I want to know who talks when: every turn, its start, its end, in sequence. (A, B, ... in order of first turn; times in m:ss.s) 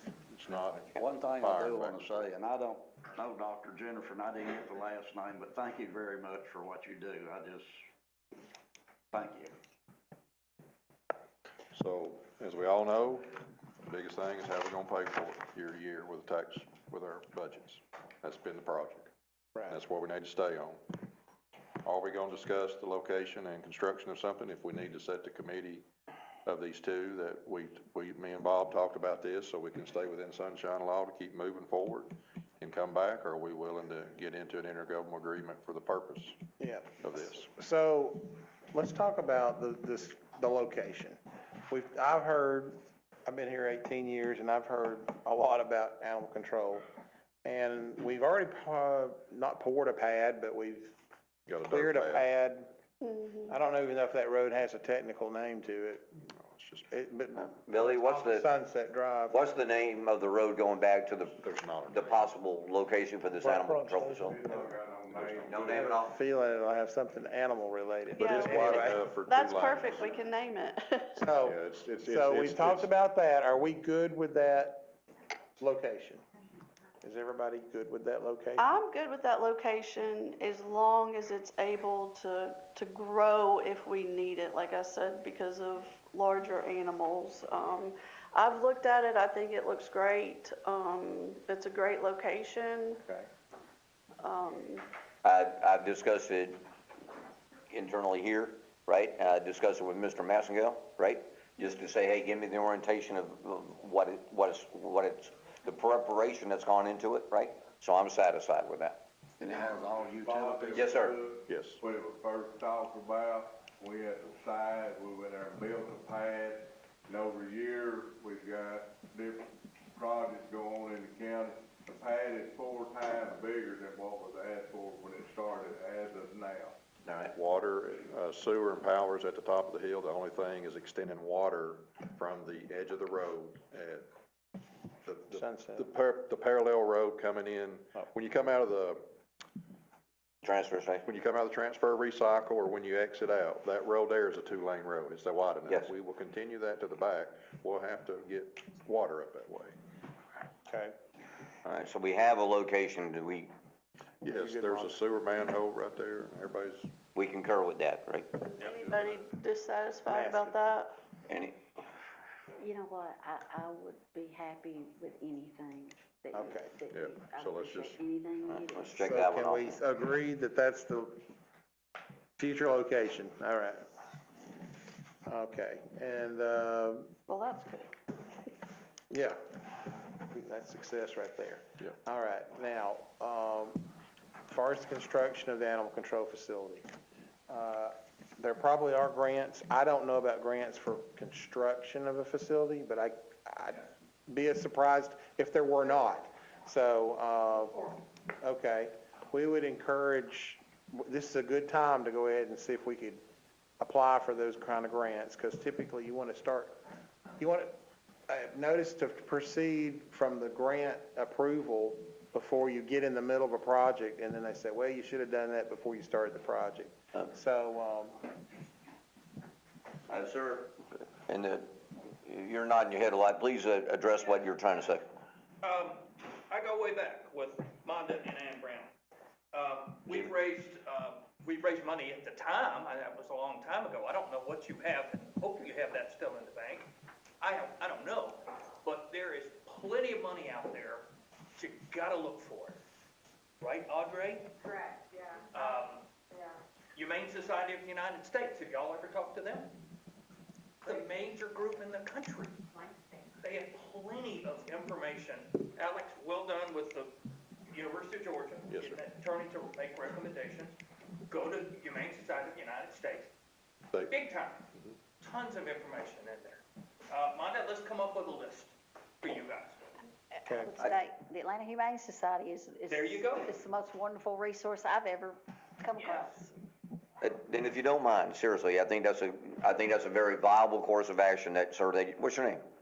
0:00.3-0:02.3 A
0:00.9-0:07.8 B
0:09.1-0:09.5 B
0:11.7-0:13.3 A
0:13.8-0:19.1 A
0:19.7-0:20.8 A
0:21.8-0:25.8 A
0:26.4-0:36.4 A
0:36.6-0:46.9 C
0:37.0-0:37.5 A
0:47.4-0:50.9 C
0:51.5-0:52.3 A
0:51.7-0:52.7 C
0:53.0-0:53.5 D
0:53.5-0:56.0 C
0:56.3-0:56.9 A
0:56.9-0:59.4 C
0:57.4-0:58.5 E
0:59.3-1:04.3 E
1:01.3-1:02.2 A
1:03.4-1:04.7 C
1:04.2-1:05.9 F
1:05.1-1:05.8 A
1:05.4-1:06.2 E
1:05.6-1:09.0 C
1:08.2-1:11.2 D
1:08.2-1:10.1 A
1:11.2-1:14.9 C
1:11.4-1:12.9 A
1:15.6-1:16.2 C
1:17.0-1:18.7 C
1:18.6-1:33.0 D
1:34.2-1:34.8 D
1:35.2-1:36.6 E
1:37.7-1:49.0 E
1:49.4-1:50.9 B
1:49.5-2:06.7 F
1:50.7-1:51.2 E
1:51.5-1:51.8 A
2:07.0-2:07.3 E
2:07.3-2:14.1 A
2:15.0-2:19.0 A
2:15.3-2:15.9 C
2:20.4-2:21.0 E
2:21.0-2:29.8 A
2:30.7-2:30.9 C
2:31.6-2:33.5 E
2:34.2-2:36.9 A
2:34.2-2:35.0 C
2:37.1-2:38.4 E
2:38.6-2:40.9 D
2:40.1-2:40.6 C
2:41.3-2:41.6 E
2:42.6-2:49.0 G
2:46.3-2:46.7 C
2:46.9-2:48.0 A
2:48.5-2:49.6 E
2:49.0-2:51.2 C
2:52.4-2:53.8 C
2:55.2-2:57.1 C
2:57.3-2:57.9 D
2:59.1-2:59.4 C
3:00.3-3:03.8 C
3:04.5-3:06.8 C
3:07.5-3:17.9 C
3:18.4-3:23.2 C
3:23.8-3:26.8 C
3:27.4-3:27.8 C
3:28.3-3:38.3 C
3:40.1-3:45.0 E
3:45.6-3:48.9 H
3:49.5-3:56.9 H
3:57.4-4:02.8 H
4:03.6-4:04.5 H
4:04.6-4:06.6 I
4:05.5-4:06.0 H
4:07.0-4:09.7 H
4:10.8-4:12.6 H
4:12.7-4:13.2 I
4:13.4-4:17.1 H
4:17.7-4:20.7 H
4:18.7-4:19.0 A
4:21.3-4:23.3 H
4:24.1-4:24.6 H
4:25.2-4:29.9 H
4:30.4-4:30.7 C
4:30.5-4:36.4 G
4:32.9-4:33.5 H
4:36.0-4:36.4 H
4:37.2-4:42.6 E